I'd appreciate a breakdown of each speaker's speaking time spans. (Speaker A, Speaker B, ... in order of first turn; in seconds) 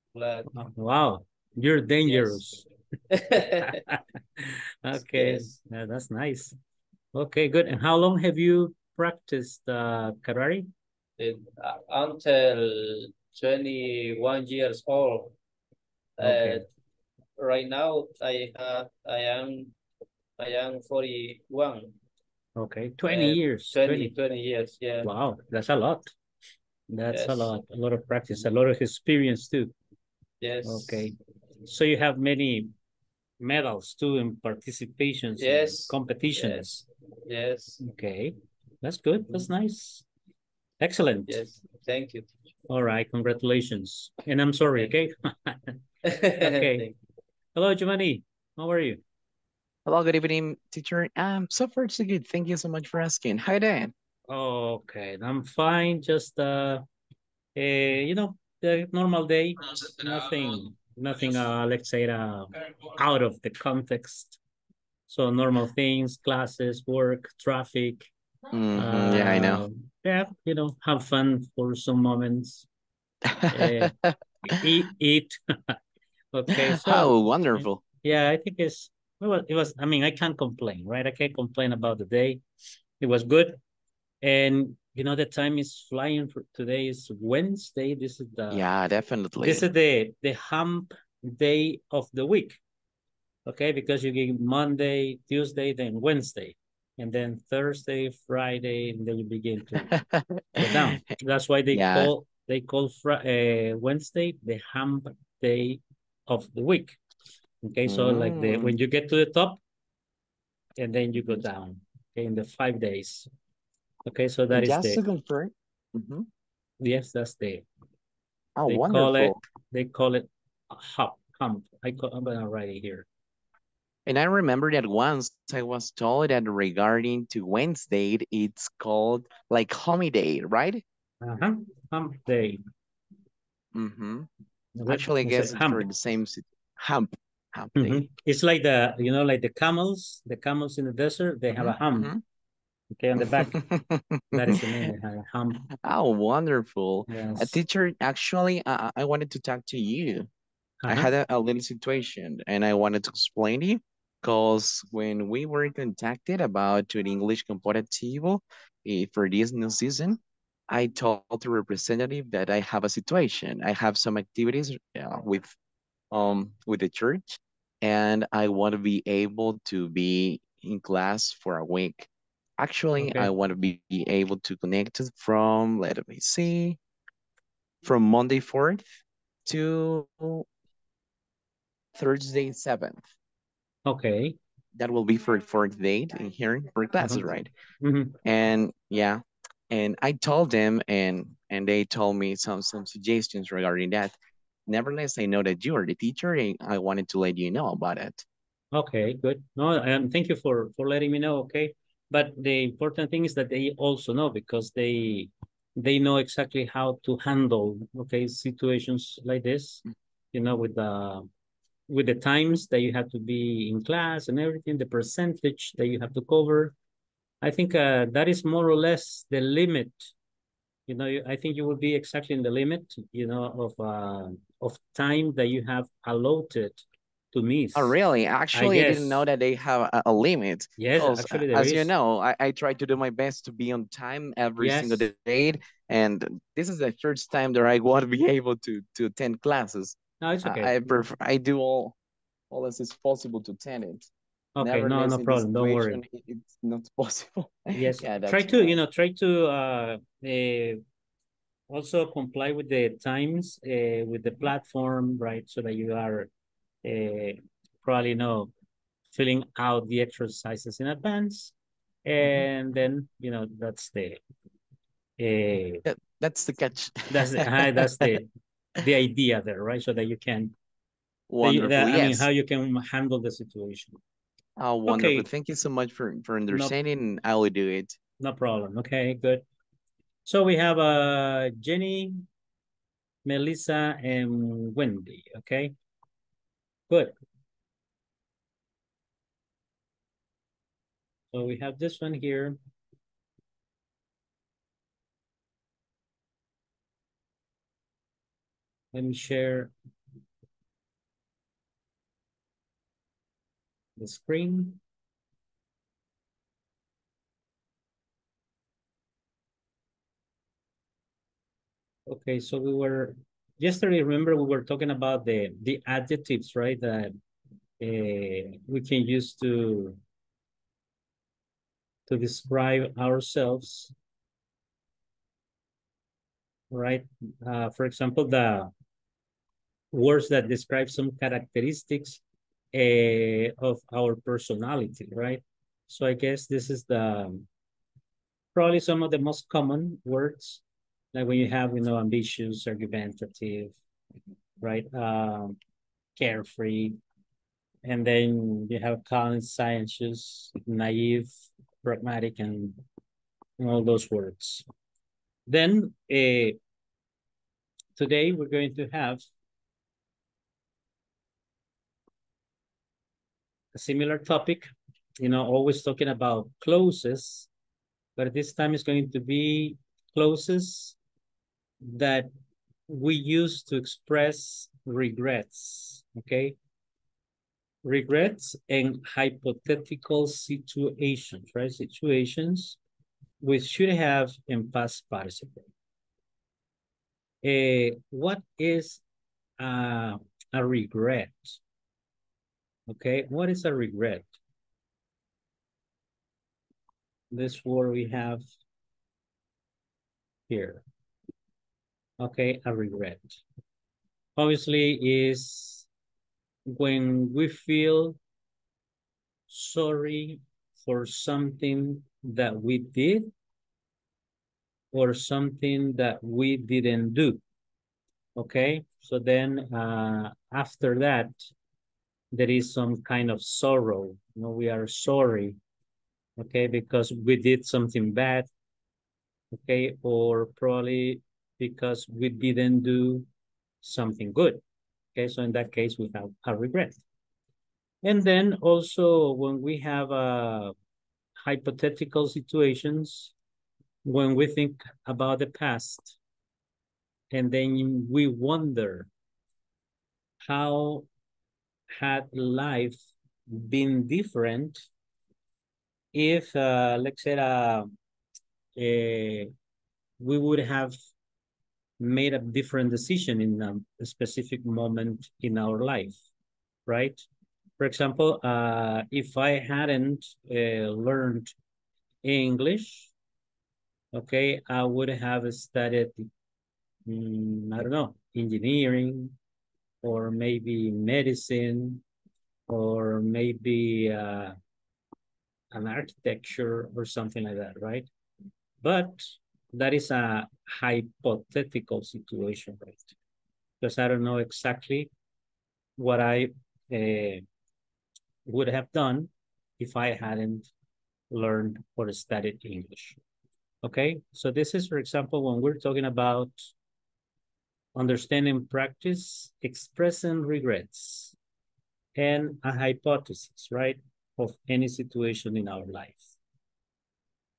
Speaker A: 0.1-0.5, 2.1-2.6, 3.1-3.8, 4.9-5.5, 11.2-15.3, 16.2-16.6, 17.4-19.7, 20.4-21.9, 23.1-25.1, 27.1-27.5, 30.4-31.1, 35.4-36.6, 37.3-37.8, 41.3-42.3, 46.0-46.9
Speaker B: 0.5-2.6, 3.6-6.5, 7.1-10.7, 16.2-16.6, 22.6-24.1, 25.0-26.1, 26.9-29.8, 30.6-31.1, 31.7-32.7, 33.4-36.8, 37.8-40.0, 40.8-41.4, 42.7-45.8, 46.4-46.9, 47.5-49.0, 54.3-56.9, 57.6-64.4, 65.1-68.1, 68.8-72.7, 73.5-73.9, 74.5-75.8, 76.3-82.4, 83.0-83.6, 84.2-88.6, 89.4-92.6, 93.5-99.9, 100.6-107.0, 107.6-109.6, 110.8-113.3, 114.1-115.0, 116.8-117.7, 118.7-123.1, 131.2-132.6, 134.8-135.9, 137.8-142.1, 142.9-143.5, 144.3-145.6, 147.1-147.6, 150.8-151.1, 173.0-173.3, 183.9-184.4, 187.0-188.2, 198.7-211.3, 211.9-216.7, 217.4-220.1, 220.9-227.9, 228.5-229.2, 230.8-231.9, 234.6-235.1, 240.2-240.7, 244.6-246.0, 247.8-250.8, 251.7-256.3, 256.8-258.5, 259.1-261.5, 262.1-264.2, 265.2-265.8, 267.1-268.3, 268.8-270.5, 271.4-274.0, 274.9-275.3, 276.5-276.8, 278.2-279.4, 280.2-282.3, 283.2-285.7, 291.3-292.6, 298.9-299.7, 304.0-304.8, 312.1-317.1, 317.8-320.0, 322.1-323.9, 326.7-328.7, 329.9-332.2, 332.7-337.5, 338.5-340.6, 341.1-343.8, 344.6-345.6, 346.2-347.0, 347.9-351.3, 351.8-352.8, 353.6-354.6, 355.5-356.6, 358.0-359.2, 363.8-364.7, 365.2-367.5, 368.2-371.0, 371.8-372.3, 372.9-376.6, 377.8-382.8, 383.4-385.7, 387.4-389.0, 389.6-391.6, 392.9-394.3, 397.3-398.4, 400.5-400.8, 402.2-403.4, 404.4-405.9, 406.7-408.2, 409.5-413.3, 414.9-417.4, 418.4-421.4, 422.3-425.6, 426.4-428.5, 429.5-433.3, 433.8-434.6, 435.1-437.0, 438.0-440.7, 441.4-443.3, 444.1-446.2, 447.3-449.1, 450.4-451.1, 451.9-454.9, 456.1-457.9, 458.8-459.5, 460.2-461.0, 462.0-466.2, 466.9-467.2, 467.8-471.5, 472.2-473.1, 474.1-476.3, 477.1-479.4, 480.0-482.0, 482.7-484.6, 485.7-488.1, 488.8-493.1, 493.8-495.1, 496.0-497.4, 498.4-500.7, 501.3-503.2, 503.8-506.7, 507.9-511.4, 512.2-516.4
Speaker C: 49.9-53.9, 68.5-69.6, 73.3-74.2, 76.5-77.8, 88.5-89.7, 99.8-101.0, 101.7-102.1, 107.9-108.7, 114.5-116.3, 118.6-119.4, 124.1-130.8, 133.7-134.3, 134.9-138.0, 141.5-142.2, 143.2-144.9, 145.8-150.3, 150.9-165.5, 166.1-172.1, 172.6-176.8, 177.8-178.8, 179.5-180.5, 181.9-183.0, 184.8-187.5, 188.2-194.2, 194.7-198.3, 227.8-241.9, 242.5-248.8, 265.9-268.2, 271.3-272.3, 274.6-278.0